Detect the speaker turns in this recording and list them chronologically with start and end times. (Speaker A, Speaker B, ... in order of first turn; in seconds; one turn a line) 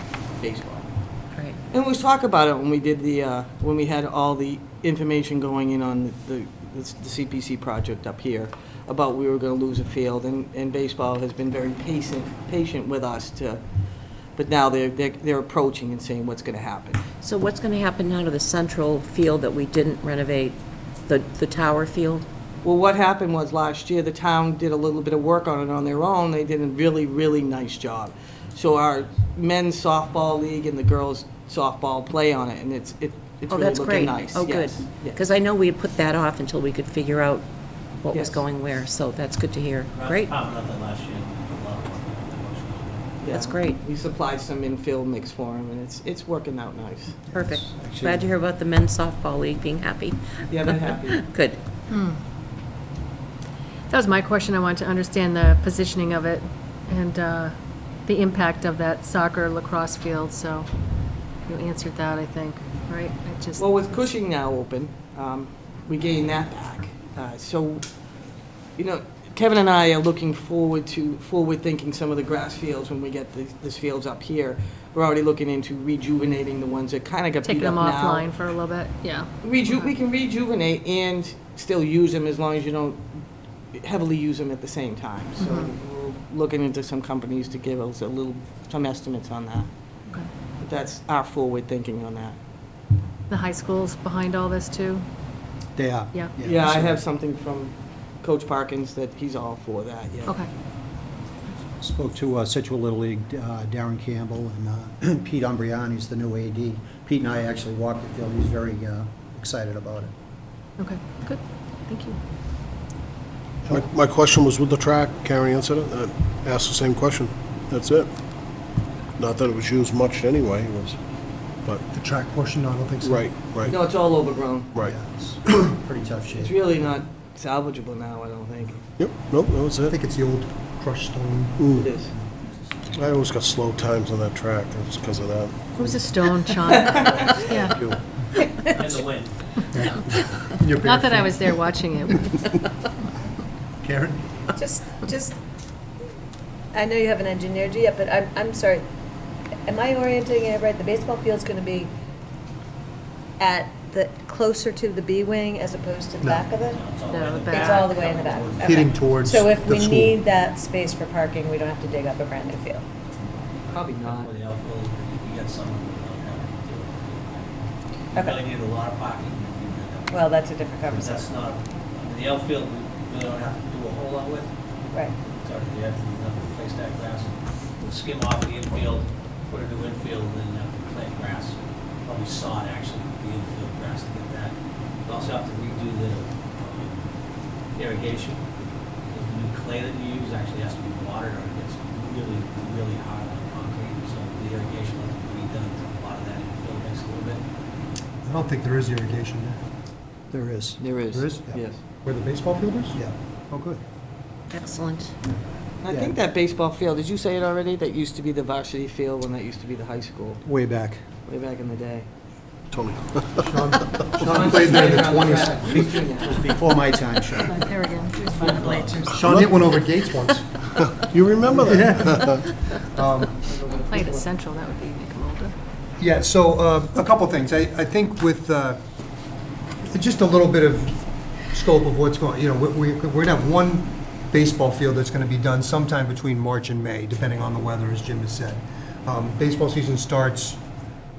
Speaker A: 0.4-0.8
Speaker A: 1.7-13.6
Speaker A: 14.3-17.0
Speaker B: 17.2-22.2
Speaker A: 22.6-35.2
Speaker B: 33.5-37.5
Speaker B: 38.0-40.3
Speaker A: 38.1-38.4
Speaker C: 39.9-43.2
Speaker A: 43.2-47.2
Speaker B: 43.3-43.8
Speaker D: 47.3-48.3
Speaker B: 47.3-51.6
Speaker A: 50.5-51.2
Speaker E: 51.9-52.2
Speaker E: 53.9-57.5
Speaker E: 58.0-60.7
Speaker E: 61.5-64.1
Speaker A: 63.6-67.8
Speaker A: 68.8-78.3
Speaker E: 77.4-79.9
Speaker A: 79.4-83.1
Speaker A: 83.7-89.7
Speaker E: 85.4-85.7
Speaker A: 90.6-92.4
Speaker E: 93.3-95.0
Speaker D: 95.8-97.0
Speaker A: 96.4-100.4
Speaker D: 101.8-110.1
Speaker E: 110.8-112.2
Speaker F: 113.7-118.1
Speaker F: 119.2-121.0
Speaker G: 121.9-123.2
Speaker F: 123.0-123.8
Speaker A: 123.7-124.7
Speaker D: 124.8-126.8
Speaker A: 126.3-128.8
Speaker F: 129.0-130.0
Speaker G: 129.8-131.8
Speaker F: 131.6-131.9
Speaker A: 131.7-132.1
Speaker F: 132.9-135.7
Speaker E: 135.7-137.9
Speaker A: 136.7-137.5
Speaker C: 138.7-139.6
Speaker G: 139.7-141.6
Speaker E: 140.7-142.4
Speaker G: 143.8-144.5
Speaker H: 144.5-145.4
Speaker H: 146.7-148.9
Speaker H: 149.6-151.9
Speaker H: 153.4-156.8
Speaker G: 156.2-156.5
Speaker C: 156.5-159.2
Speaker E: 157.1-157.9
Speaker H: 157.5-162.8
Speaker G: 158.6-160.2
Speaker C: 163.2-167.6
Speaker A: 163.7-164.3
Speaker C: 168.1-170.3
Speaker H: 170.1-171.3
Speaker C: 170.8-174.5
Speaker C: 175.3-187.0
Speaker C: 187.7-188.5
Speaker C: 189.1-197.4
Speaker G: 198.2-199.6
Speaker D: 200.3-200.8
Speaker A: 200.8-201.8
Speaker G: 201.1-203.8
Speaker B: 204.5-205.1
Speaker A: 205.8-210.4
Speaker D: 205.9-206.1
Speaker D: 210.4-211.0
Speaker A: 211.2-212.1
Speaker F: 212.7-214.2
Speaker G: 213.4-215.6
Speaker A: 214.2-216.6
Speaker D: 215.6-217.7
Speaker E: 217.5-219.2
Speaker C: 218.2-219.2
Speaker G: 219.1-220.5
Speaker F: 219.2-219.8
Speaker F: 220.7-222.4
Speaker G: 221.6-223.3
Speaker A: 223.4-224.3
Speaker E: 223.9-225.6
Speaker G: 226.0-228.8
Speaker G: 229.9-240.6